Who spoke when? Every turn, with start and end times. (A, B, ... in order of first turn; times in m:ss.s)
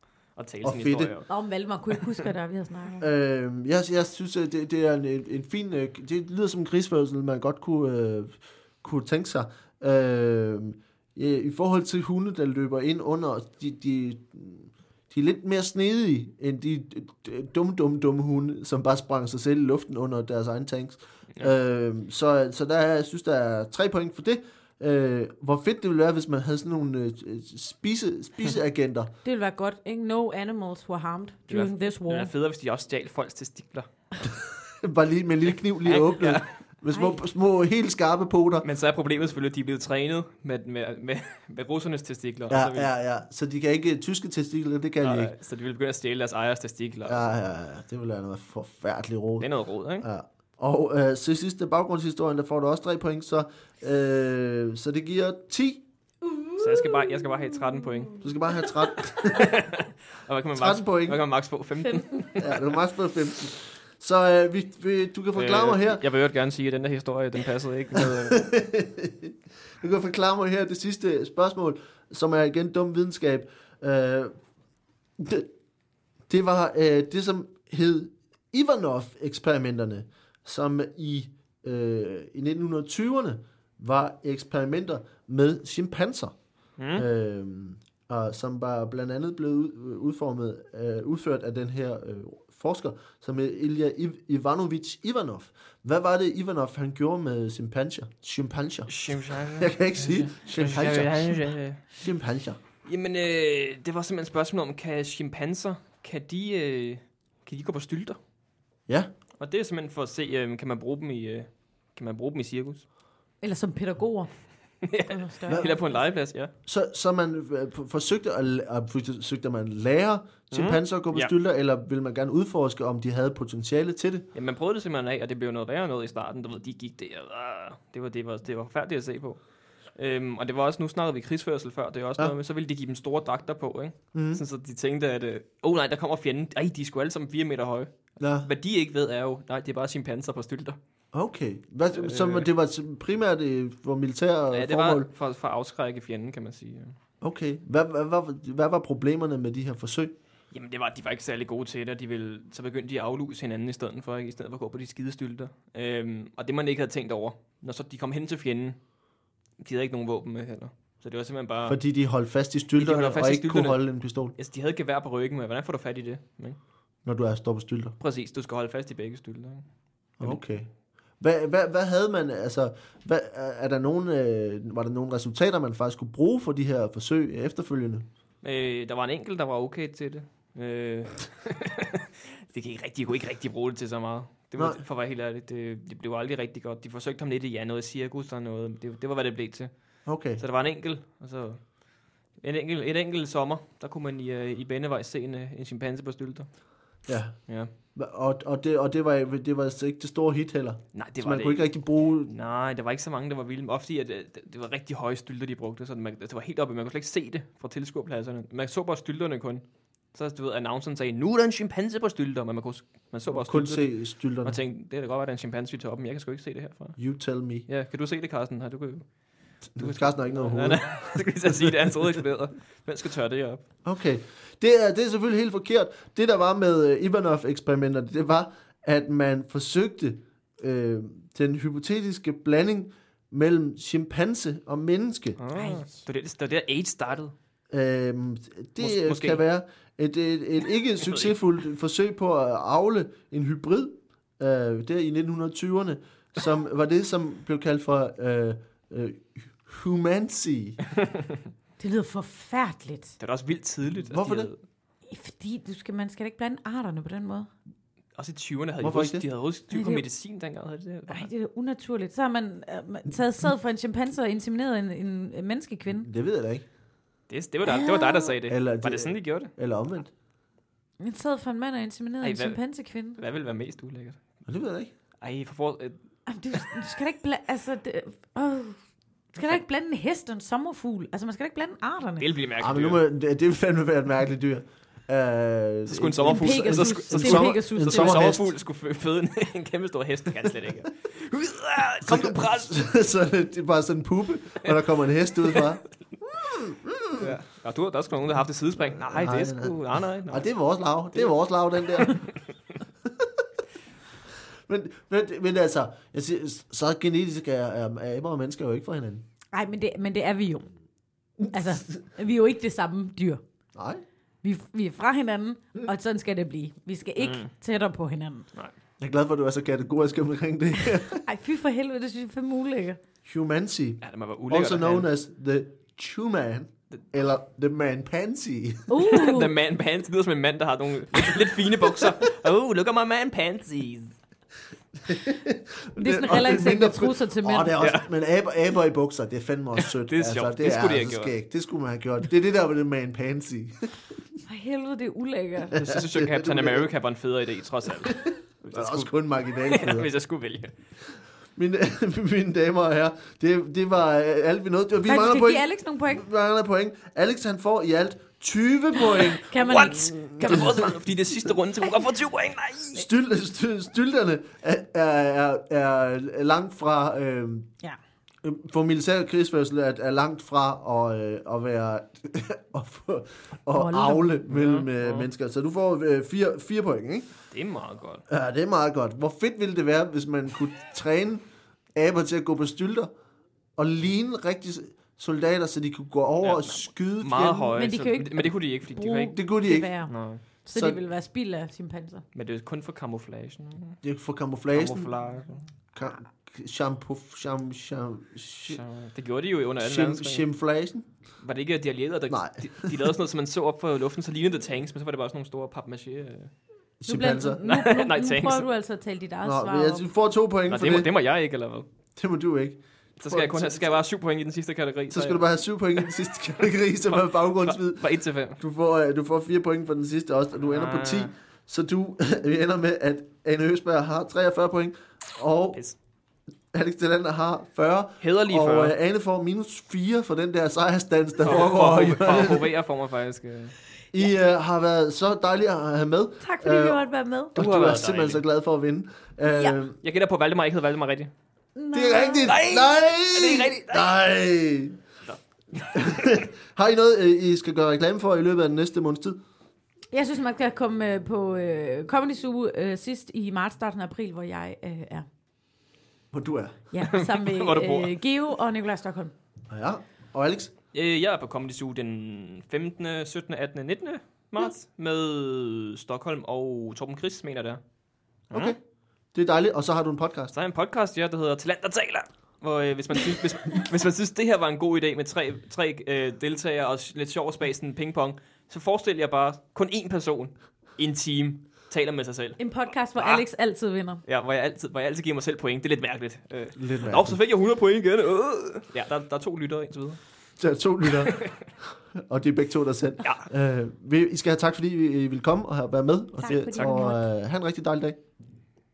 0:00.3-0:01.3 A
0:00.6-0:01.1 B
0:01.3-0:03.1 C
0:01.9-0:02.2 A
0:03.0-0:29.1 B
0:29.2-0:32.3 C
0:31.5-0:33.9 A
0:34.8-0:38.6 B
0:35.8-0:36.5 A
0:36.9-0:37.2 C
0:38.6-0:42.9 A
0:42.5-0:45.3 B
0:45.0-0:47.3 A
0:47.0-0:55.8 B
0:49.4-0:50.1 A
0:56.3-0:57.2 C
0:56.6-0:58.2 A
0:58.2-0:59.5 B
0:59.2-1:02.7 A
1:00.5-1:01.2 B
1:01.9-1:02.3 C
1:02.4-1:06.0 B
1:05.3-1:08.4 A
1:08.0-1:14.3 B
1:15.2-1:15.5 B
1:16.3-1:26.3 B
1:26.8-1:27.0 A
1:26.9-1:41.4 B
1:38.9-1:41.8 A
1:41.9-1:42.6 B
1:42.8-1:48.2 A
1:49.4-1:52.8 A
1:53.4-1:54.3 C
1:54.8-1:56.5 A
1:54.8-1:56.0 C
1:56.6-2:04.2 B
2:00.5-2:01.3 A
2:04.3-2:09.4 A
2:09.9-2:20.8 A
2:14.1-2:14.4 B
2:18.2-2:18.5 B
2:21.1-2:25.1 B
2:21.9-2:22.5 A
2:24.5-2:27.0 A
2:27.2-2:30.1 B
2:30.5-2:38.8 A
2:39.6-2:41.8 A
2:41.6-2:44.3 B
2:42.8-2:43.8 A
2:44.4-2:46.6 A
2:47.0-2:47.9 B
2:48.0-2:49.6 A
2:50.2-2:50.7 B
2:51.2-2:58.0 B
2:58.4-3:11.8 A
3:10.0-3:10.4 B
3:12.4-3:16.5 A
3:17.1-3:17.4 B
3:17.9-3:22.3 B
3:20.9-3:21.7 A
3:22.2-3:33.9 A
3:33.3-3:34.6 B
3:34.4-3:37.0 A
3:37.0-3:37.7 B
3:37.7-3:39.2 A
3:39.7-3:41.9 B
3:39.8-3:43.6 A
3:43.8-3:55.4 B
3:55.4-3:57.3 A
3:55.6-3:56.0 C
3:57.7-4:10.8 B
3:58.8-3:59.4 A
4:01.0-4:01.4 A
4:11.0-4:11.4 A
4:11.8-4:13.2 C
4:13.2-4:14.6 A
4:14.0-4:14.5 B
4:15.1-4:17.5 C
4:18.1-4:21.3 A
4:18.8-4:19.2 B
4:19.7-4:20.0 C
4:21.1-4:26.1 C
4:26.0-4:26.6 B
4:27.3-4:29.5 A
4:27.6-4:28.3 C
4:28.5-4:30.1 B
4:31.0-4:33.2 C
4:32.2-4:32.6 A
4:33.2-4:34.2 A
4:34.4-4:34.9 B
4:35.2-4:36.0 A
4:36.3-4:38.8 C
4:39.3-4:42.3 C
4:42.2-4:43.0 A
4:42.6-4:48.5 B
4:45.9-4:52.8 A
4:46.3-4:48.4 C
4:52.0-4:57.3 B
4:54.6-4:54.9 A
4:57.2-5:00.5 A
4:59.0-5:02.3 B
5:01.9-5:02.4 A
5:04.7-5:09.2 B
5:09.5-5:10.7 C
5:11.5-5:13.4 C
5:13.7-5:14.0 B
5:14.4-5:18.5 C
5:17.2-5:17.5 A
5:19.0-5:21.2 B
5:21.2-5:23.0 C
5:23.2-5:28.9 B
5:24.0-5:25.1 A
5:28.9-5:29.5 C
5:29.0-5:34.1 A
5:35.0-5:43.9 B
5:36.0-5:37.7 C
5:37.8-5:38.1 A
5:39.8-5:41.3 A
5:44.4-5:45.8 C
5:45.7-5:46.9 B
5:45.7-5:48.2 A
5:48.0-5:50.1 B
5:48.7-5:49.1 A
5:49.7-5:50.7 A
5:51.6-5:59.5 B
5:55.0-5:56.2 C
5:59.0-6:00.9 C
5:59.5-6:03.0 A
6:00.2-6:00.9 B
6:02.9-6:07.7 B
6:08.4-6:17.3 B
6:13.7-6:14.3 C
6:14.5-6:15.3 A
6:17.5-6:18.2 A
6:18.3-6:21.4 B
6:21.9-6:23.1 B
6:23.8-6:27.8 B
6:26.4-6:29.4 A
6:27.7-6:32.2 C
6:29.3-6:29.9 B
6:30.1-6:30.4 A
6:30.7-6:31.0 B
6:32.3-6:34.0 A
6:34.0-6:35.1 B
6:34.7-6:35.6 A
6:35.9-6:38.8 B
6:38.7-6:40.4 A
6:39.8-6:41.1 B
6:41.4-6:46.5 A
6:42.3-6:43.0 B
6:47.0-6:47.6 B
6:47.0-6:50.0 C
6:47.6-6:48.7 A
6:49.4-6:51.1 B
6:50.7-6:51.9 A
6:52.1-6:53.9 B
6:53.2-6:55.5 A
6:55.1-7:05.8 B
6:57.1-6:58.6 A
7:00.6-7:01.3 A
7:06.7-7:12.7 B
7:08.2-7:09.0 A
7:11.4-7:13.7 A
7:14.1-7:17.0 B
7:16.4-7:17.6 C
7:17.5-7:18.4 A
7:17.5-7:20.0 B
7:19.4-7:19.8 C
7:20.0-7:21.3 A
7:21.7-7:22.6 C
7:21.9-7:25.0 B
7:22.4-7:24.1 A
7:25.2-7:26.4 A
7:25.9-7:29.4 B
7:30.1-7:35.3 C
7:36.3-7:36.8 B
7:36.9-7:39.3 C
7:37.0-7:38.1 A
7:39.7-7:40.7 B
7:40.9-7:47.8 A
7:48.5-7:48.8 A
7:48.5-7:48.8 B
7:49.3-7:50.5 B
7:50.5-8:03.4 A
8:02.6-8:04.2 C
8:04.2-8:10.2 A
8:06.8-8:07.4 B
8:10.6-8:18.2 B
8:11.0-8:11.6 A
8:16.4-8:17.2 C